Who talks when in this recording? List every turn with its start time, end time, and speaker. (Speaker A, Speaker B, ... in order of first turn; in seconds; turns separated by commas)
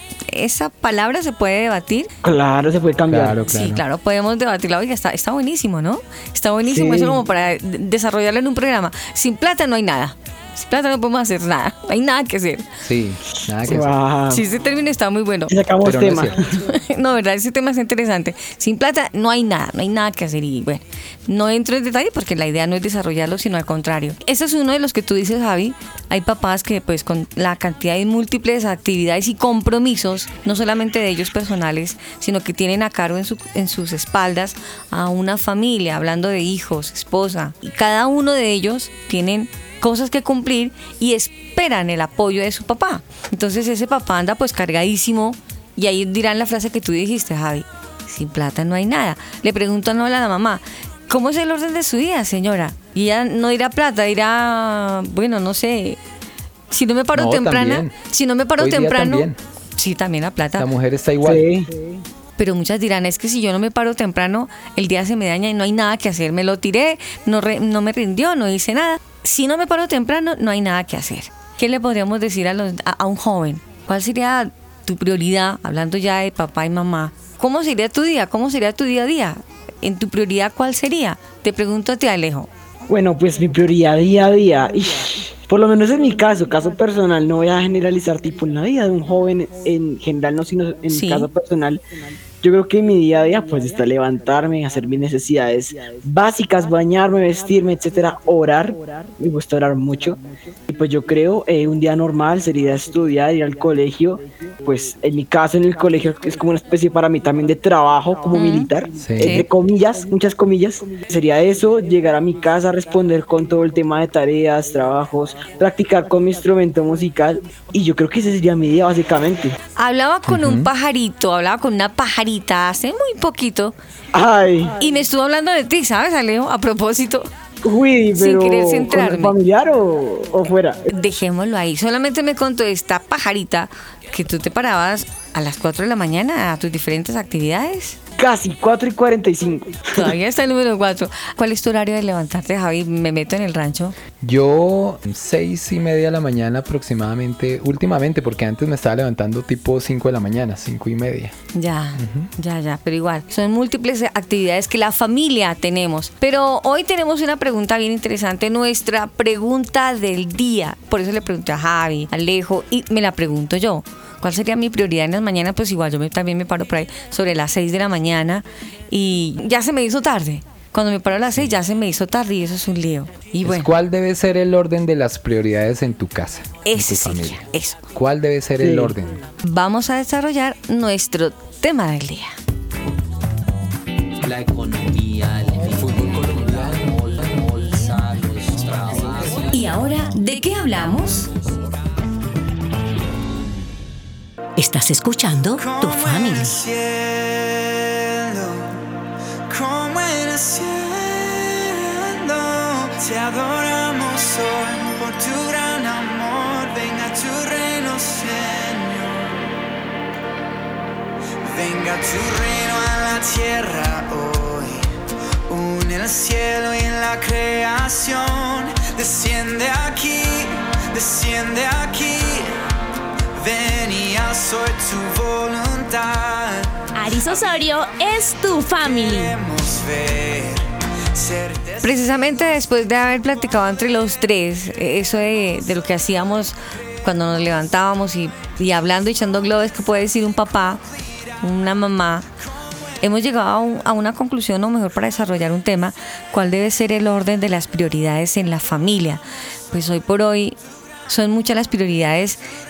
Speaker A: 0.3-2.1, Speaker B: 2.2-3.4, Speaker C: 3.1-3.8, Speaker A: 3.4-12.7, Speaker B: 6.7-7.2, Speaker C: 12.8-13.9, Speaker B: 13.6-14.4, Speaker A: 14.3-15.5, Speaker B: 15.5-16.6, Speaker C: 15.8-16.4, Speaker A: 16.6-56.0, Speaker A: 56.7-60.7, Speaker C: 57.1-57.9, Speaker C: 58.6-59.4, Speaker C: 60.6-61.5, Speaker B: 61.2-61.7, Speaker A: 62.4-82.5, Speaker B: 82.9-91.8, Speaker A: 90.9-91.3, Speaker B: 92.4-119.5, Speaker A: 108.3-109.5, Speaker C: 109.0-109.5, Speaker A: 119.8-123.8, Speaker C: 120.3-120.7, Speaker B: 124.1-124.7, Speaker A: 124.8-127.3, Speaker B: 127.6-130.9, Speaker A: 128.1-129.3, Speaker A: 130.9-138.0, Speaker B: 138.2-140.1, Speaker A: 140.0-143.9, Speaker C: 144.2-151.3, Speaker A: 151.5-173.7, Speaker C: 152.0-152.3, Speaker C: 173.4-179.2, Speaker A: 176.6-177.8, Speaker B: 178.6-178.9, Speaker A: 179.4-182.3, Speaker D: 184.2-189.4, Speaker C: 185.7-186.3, Speaker A: 189.5-191.3, Speaker E: 194.6-196.6, Speaker F: 195.5-198.7, Speaker F: 199.5-209.4, Speaker F: 211.4-214.8, Speaker F: 215.5-222.6, Speaker F: 223.4-227.5, Speaker G: 226.9-229.3, Speaker F: 228.8-232.0, Speaker A: 231.8-240.8, Speaker A: 241.4-242.3, Speaker A: 243.0-252.4